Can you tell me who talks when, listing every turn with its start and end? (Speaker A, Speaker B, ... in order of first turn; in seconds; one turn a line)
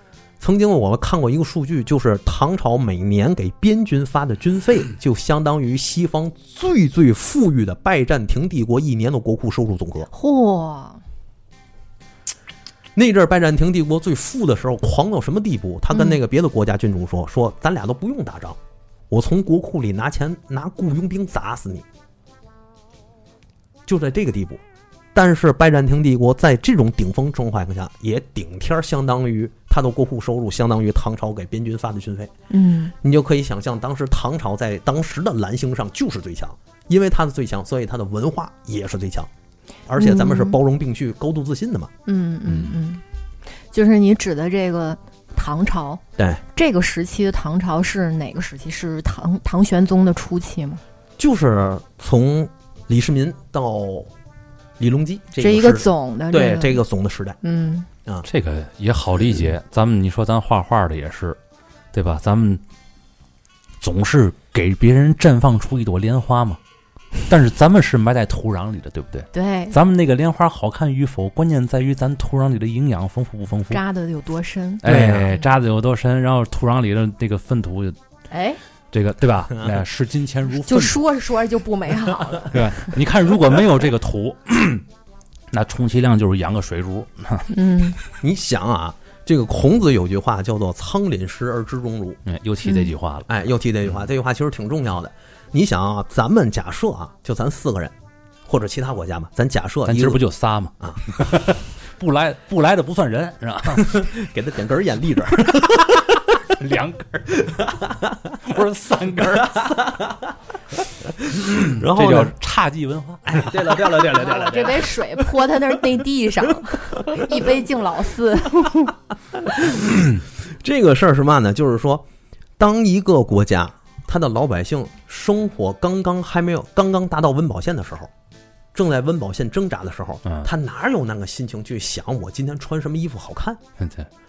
Speaker A: 0.4-10.1
Speaker B: 10.1-11.0
Speaker A: 12.9-18.6
Speaker B: 15.9-16.2
Speaker A: 19.1-21.9
Speaker A: 23.9-24.6
Speaker A: 25.1-32.3
Speaker B: 32.5-32.9
Speaker A: 33.0-39.3
Speaker A: 39.9-41.9
Speaker B: 40.0-40.6
Speaker B: 42.1-43.0
Speaker B: 43.7-46.0
Speaker B: 46.5-50.8
Speaker A: 51.2-54.1
Speaker A: 54.8-57.4
Speaker B: 55.4-56.8
Speaker B: 57.4-57.9
Speaker C: 58.2-61.4
Speaker C: 61.9-62.6
Speaker C: 63.8-66.6
Speaker C: 67.3-73.8
Speaker B: 69.3-69.8
Speaker B: 73.7-75.4
Speaker C: 74.8-78.0
Speaker A: 74.8-75.3
Speaker B: 78.3-78.6
Speaker C: 78.9-81.0
Speaker B: 80.6-82.9
Speaker C: 82.4-84.8
Speaker C: 85.5-87.5
Speaker B: 87.5-88.0
Speaker A: 88.2-92.2
Speaker C: 92.3-93.5
Speaker B: 92.7-92.9
Speaker A: 93.3-97.9
Speaker A: 98.5-100.2
Speaker C: 99.9-104.0
Speaker A: 100.8-101.2
Speaker A: 103.8-106.4
Speaker C: 106.5-107.7
Speaker A: 107.5-108.3
Speaker C: 108.4-109.8
Speaker A: 109.5-110.3
Speaker A: 111.2-112.3
Speaker C: 111.4-113.8
Speaker A: 113.3-114.9
Speaker B: 114.1-118.9
Speaker A: 119.5-122.1
Speaker A: 122.6-128.1
Speaker A: 128.7-133.6
Speaker C: 130.2-130.5
Speaker C: 133.8-134.1